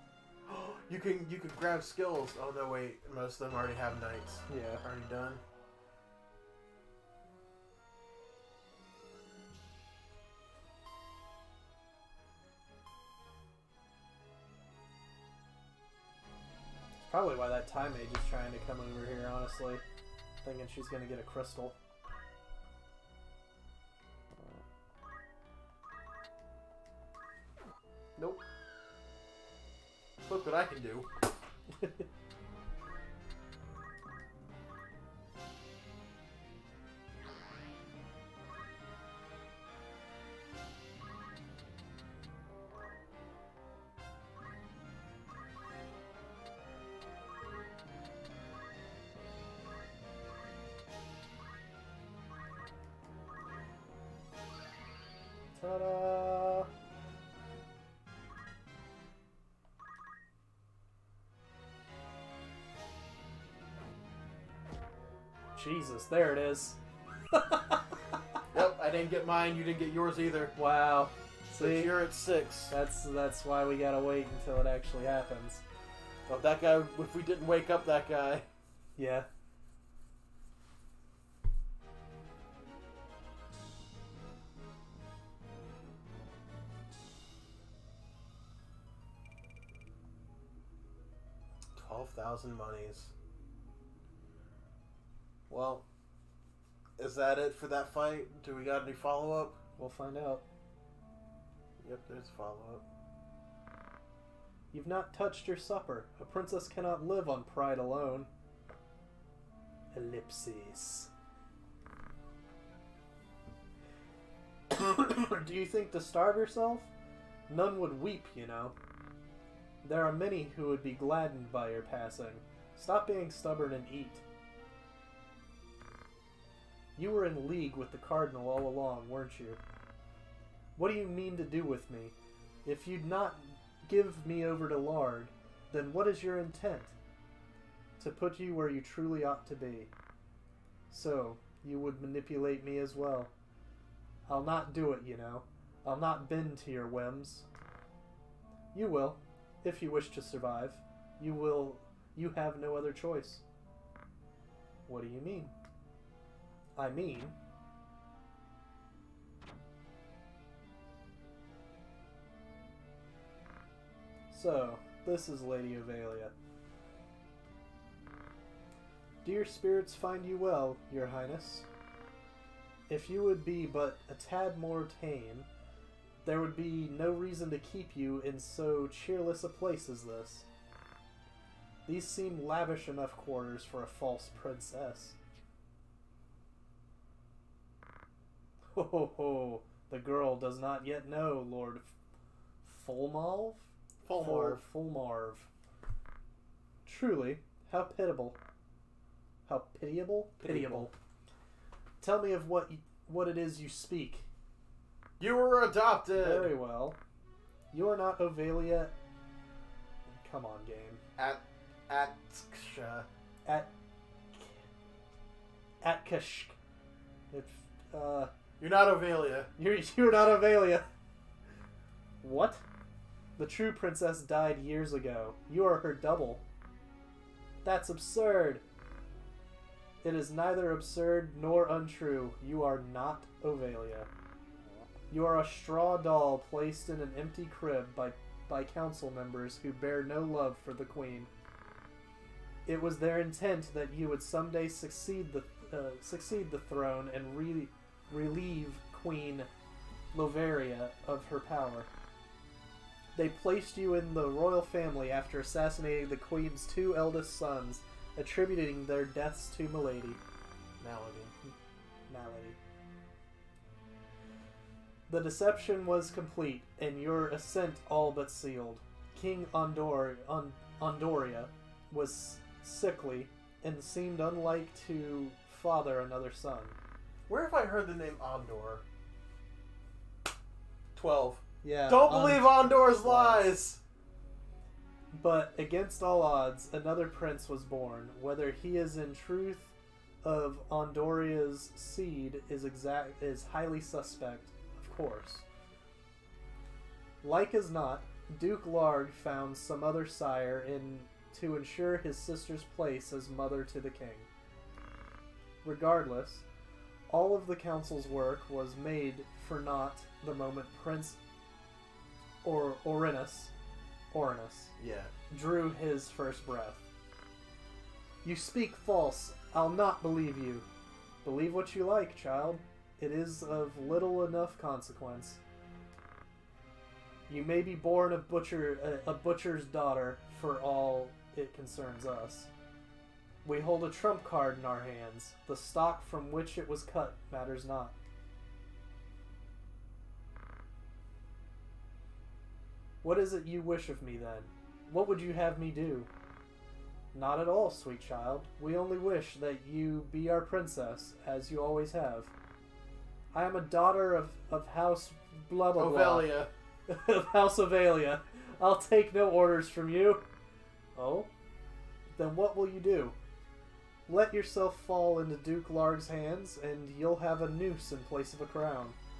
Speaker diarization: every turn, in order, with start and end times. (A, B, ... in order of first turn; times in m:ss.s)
0:00.5-0:05.4 A
0:04.5-0:04.8 B
0:17.0-0:19.8 B
0:20.4-0:21.8 B
0:28.2-0:28.4 A
0:30.2-0:31.1 A
0:31.7-0:32.1 B
0:55.5-0:56.7 B
1:05.5-1:06.8 B
1:07.3-1:07.8 B
1:08.5-1:10.5 A
1:10.6-1:12.0 B
1:11.6-1:12.7 A
1:12.7-1:15.6 B
1:16.3-1:18.4 A
1:19.0-1:19.3 B
1:31.7-1:33.1 A
1:35.5-1:35.8 A
1:37.0-1:39.6 A
1:39.8-1:40.4 B
1:41.8-1:42.8 A
1:44.7-1:48.3 B
1:49.9-1:51.1 B
1:54.7-1:56.9 B
1:57.5-1:58.7 B
1:59.8-2:04.2 B
2:07.0-2:09.6 B
2:10.8-2:16.9 B
2:18.0-2:19.9 B
2:20.9-2:23.3 B
2:24.3-2:27.4 B
2:28.7-2:33.4 B
2:34.9-2:35.5 B
2:36.8-2:37.3 B
2:44.3-2:46.3 B
2:49.2-2:51.6 B
2:52.9-2:55.5 B
2:56.2-3:00.4 B
3:01.8-3:05.2 B
3:08.7-3:11.9 B
3:12.6-3:15.5 B
3:14.0-3:14.6 A
3:16.8-3:18.4 B
3:19.4-3:20.9 B
3:20.4-3:20.9 A
3:22.0-3:24.2 B
3:25.2-3:26.5 A
3:26.1-3:27.0 B
3:27.7-3:28.9 B
3:30.1-3:31.0 B
3:31.2-3:33.1 A
3:33.4-3:33.7 B
3:34.3-3:34.7 B
3:35.8-3:36.6 B
3:37.3-3:38.3 B
3:38.6-3:39.5 A
3:39.6-3:40.8 B
3:42.2-3:42.6 B
3:43.4-3:46.4 B
3:47.6-3:48.6 B
3:50.0-3:54.1 B
3:55.1-4:01.3 B
4:02.6-4:09.5 B
4:10.1-4:11.9 B
4:13.1-4:20.2 B
4:20.8-4:21.3 A
4:22.1-4:22.6 B
4:25.1-4:36.8 B
4:37.3-4:38.8 A
4:40.9-4:43.8 A
4:41.6-4:43.5 B
4:45.1-4:55.4 B
4:57.2-5:04.3 B
5:05.6-5:06.4 B
5:07.1-5:11.2 B
5:12.4-5:13.5 B
5:14.1-5:14.7 B
5:14.8-5:15.1 A
5:15.3-5:16.8 B
5:18.2-5:20.6 B
5:21.2-5:25.4 B
5:27.3-5:32.5 B
5:33.4-5:37.9 B
5:43.0-5:46.1 B
5:47.1-5:52.3 B
5:53.3-5:56.3 B
5:55.8-5:56.5 A
5:56.9-6:00.2 B
6:01.0-6:01.3 B
6:02.1-6:03.2 B
6:04.1-6:09.0 B